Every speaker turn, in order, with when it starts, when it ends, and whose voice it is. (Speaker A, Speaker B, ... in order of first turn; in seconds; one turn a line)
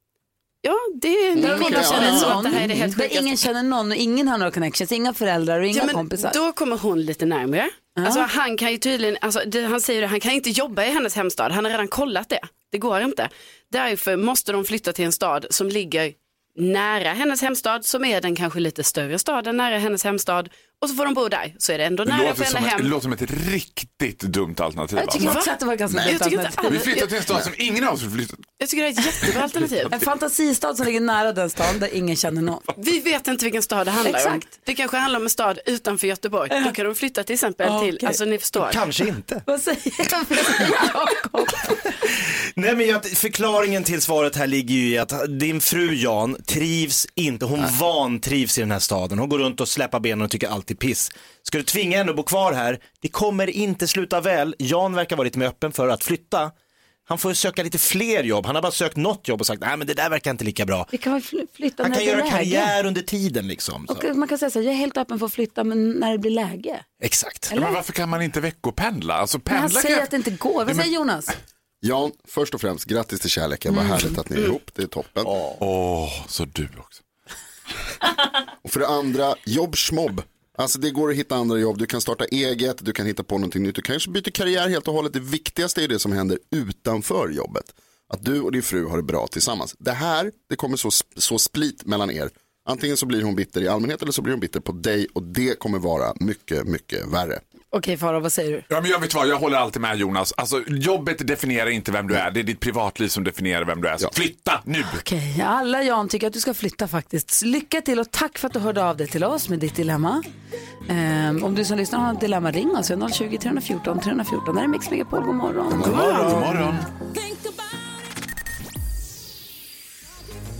Speaker A: 0.6-3.4
Speaker B: 1.3-2.9
Speaker C: 1.4-6.4
Speaker A: 5.7-22.9
Speaker C: 8.0-8.3
Speaker D: 22.0-25.4
Speaker C: 25.0-26.8
Speaker A: 25.1-27.1
Speaker D: 26.6-28.5
Speaker A: 28.6-29.9
Speaker C: 29.9-32.6
Speaker A: 32.8-38.8
Speaker C: 34.0-34.4
Speaker C: 37.6-38.2
Speaker E: 38.6-39.4
Speaker C: 39.5-41.9
Speaker E: 42.5-56.5
Speaker E: 57.1-60.9
Speaker C: 60.9-62.7
Speaker E: 61.8-64.0
Speaker C: 63.9-66.8
Speaker E: 67.0-67.5
Speaker C: 67.5-67.8
Speaker D: 67.5-70.1
Speaker C: 69.5-71.3
Speaker B: 71.8-75.4
Speaker D: 75.6-77.0
Speaker B: 78.6-97.4
Speaker C: 97.7-98.6
Speaker D: 98.7-105.0
Speaker C: 104.9-110.2
Speaker C: 110.9-116.5
Speaker D: 115.7-116.9
Speaker E: 115.8-116.6